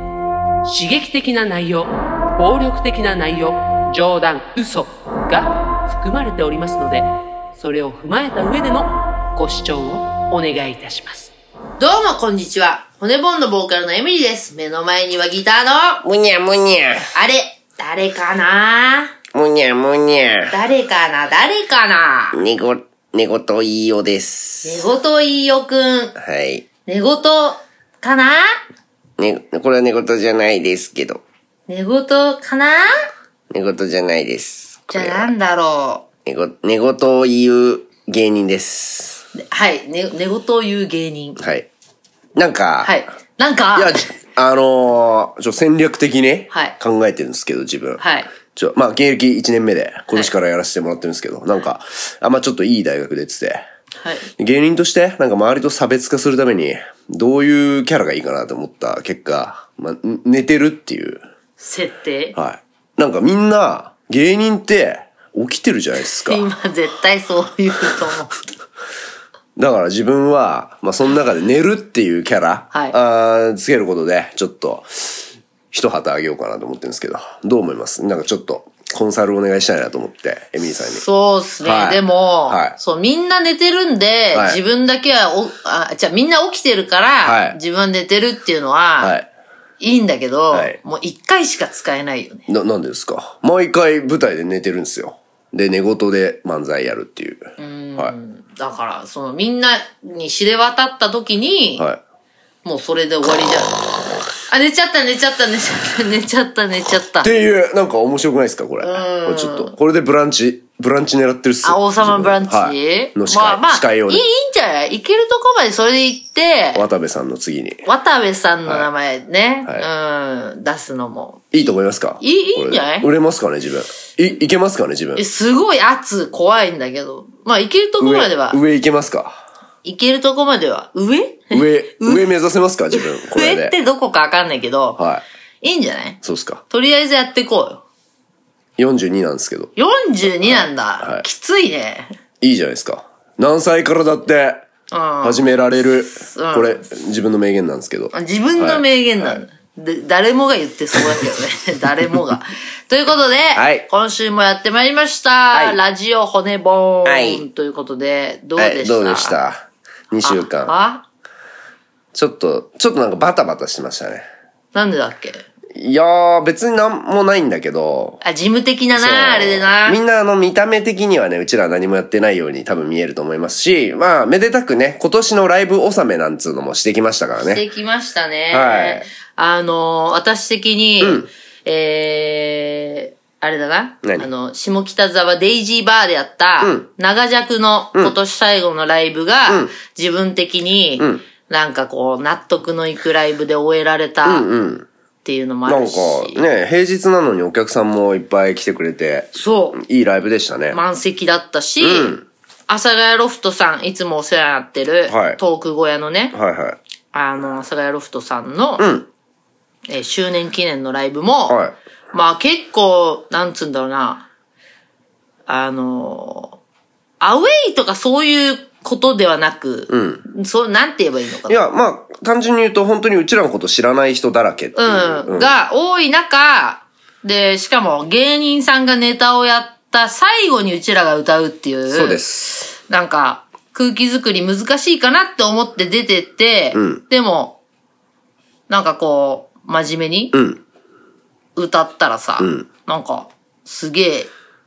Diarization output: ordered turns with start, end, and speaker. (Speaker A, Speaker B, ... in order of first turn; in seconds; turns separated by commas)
Speaker A: 0.6-11.3, Speaker B: 11.8-16.0, Speaker C: 16.0-17.1, Speaker B: 17.1-19.1, Speaker C: 19.3-20.6, Speaker B: 20.5-22.4, Speaker C: 22.3-24.8, Speaker B: 24.6-26.1, Speaker C: 26.2-26.7, Speaker B: 26.9-28.6, Speaker C: 29.2-31.2, Speaker B: 31.7-33.0, Speaker C: 33.5-35.3, Speaker B: 34.9-36.0, Speaker C: 36.2-39.2, Speaker B: 39.3-41.4, Speaker C: 41.4-41.7, Speaker C: 42.4-43.0, Speaker B: 42.8-44.1, Speaker C: 43.7-53.6, Speaker B: 48.0-48.3, Speaker B: 54.0-54.3, Speaker C: 54.4-61.2, Speaker B: 61.6-62.4, Speaker C: 62.3-66.4, Speaker B: 66.2-68.4, Speaker C: 69.6-81.0, Speaker B: 80.9-89.2, Speaker C: 81.6-82.8, Speaker C: 84.3-84.6, Speaker C: 87.2-87.6, Speaker C: 89.0-89.3, Speaker B: 89.8-92.5, Speaker C: 90.5-90.8, Speaker C: 92.5-98.1, Speaker B: 97.6-101.8, Speaker B: 102.6-107.3, Speaker C: 107.2-114.2, Speaker B: 108.8-109.7, Speaker B: 111.6-116.9, Speaker C: 116.8-117.8, Speaker B: 117.8-123.1, Speaker C: 121.5-125.2, Speaker B: 125.2-128.6, Speaker C: 128.0-129.4, Speaker B: 129.8-132.3, Speaker C: 131.5-133.8, Speaker B: 132.9-135.0, Speaker C: 135.0-135.2, Speaker B: 135.6-137.8, Speaker C: 136.2-136.6, Speaker C: 138.8-139.7, Speaker B: 139.8-142.1, Speaker C: 140.3-141.2, Speaker C: 142.4-144.7, Speaker B: 144.9-145.5, Speaker C: 145.2-149.4, Speaker B: 146.1-146.8, Speaker B: 148.1-159.4, Speaker C: 150.9-151.2, Speaker C: 153.6-153.9, Speaker C: 155.5-155.8, Speaker C: 157.1-157.4, Speaker C: 158.6-160.7, Speaker B: 160.2-161.0, Speaker C: 162.1-164.2, Speaker B: 164.7-165.4, Speaker C: 165.8-168.2, Speaker B: 168.2-170.0, Speaker C: 168.9-177.6, Speaker B: 177.4-194.5, Speaker C: 178.5-179.1, Speaker C: 181.0-181.3, Speaker C: 186.6-186.9, Speaker C: 189.5-189.7, Speaker C: 194.2-194.9, Speaker B: 195.2-196.4, Speaker C: 195.7-200.8, Speaker B: 199.3-199.8, Speaker B: 200.7-206.4, Speaker C: 201.8-202.2, Speaker C: 205.1-205.4, Speaker C: 206.3-206.8, Speaker B: 207.1-208.9, Speaker C: 208.8-209.1, Speaker B: 209.9-211.6, Speaker C: 211.5-211.8, Speaker B: 212.1-214.2, Speaker B: 215.5-216.6, Speaker B: 217.2-221.7, Speaker C: 219.9-220.2, Speaker C: 221.5-225.6, Speaker B: 224.8-237.6, Speaker C: 231.9-232.5, Speaker C: 236.8-237.0, Speaker B: 238.7-240.4, Speaker C: 240.3-240.6, Speaker B: 241.6-244.3, Speaker C: 242.4-242.7